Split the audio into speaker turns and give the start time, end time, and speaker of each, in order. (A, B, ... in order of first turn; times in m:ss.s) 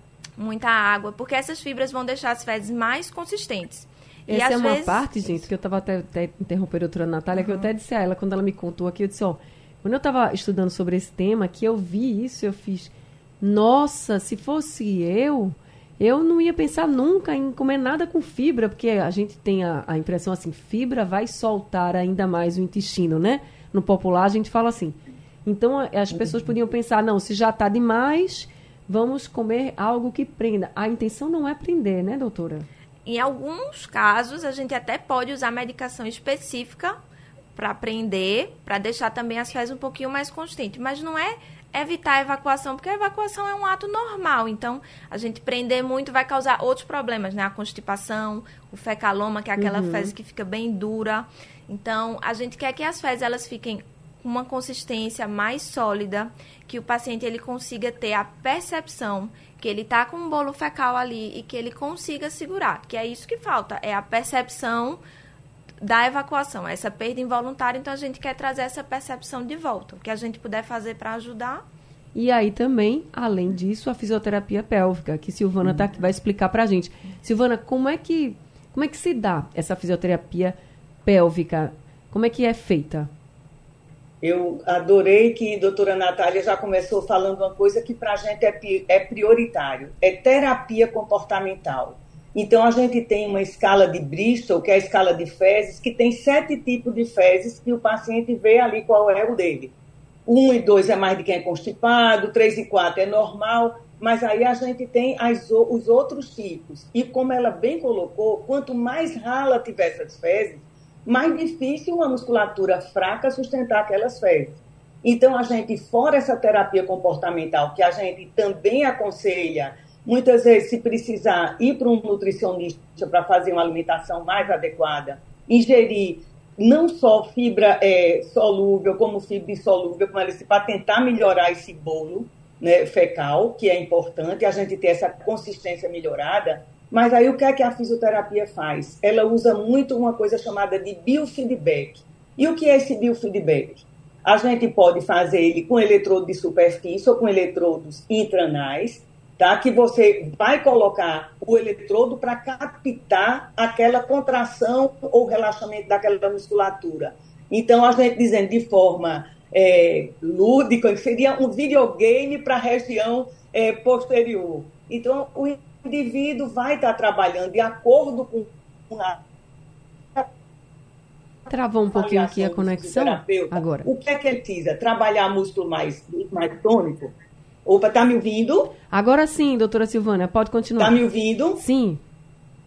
0:00.4-0:05.5 A
0:04.3-0:32.7 B
0:07.3-0:07.7 A
0:33.1-0:37.0 A
0:37.6-1:05.0 A
0:49.6-0:50.1 B
1:05.8-1:11.6 A
1:12.2-1:23.1 B
1:24.2-1:39.7 C
1:40.3-2:49.2 C
2:51.5-2:53.9 B
2:51.9-2:57.1 C
2:57.7-2:58.8 C
2:58.9-3:01.0 B
3:00.8-3:01.6 C
3:01.6-3:02.0 B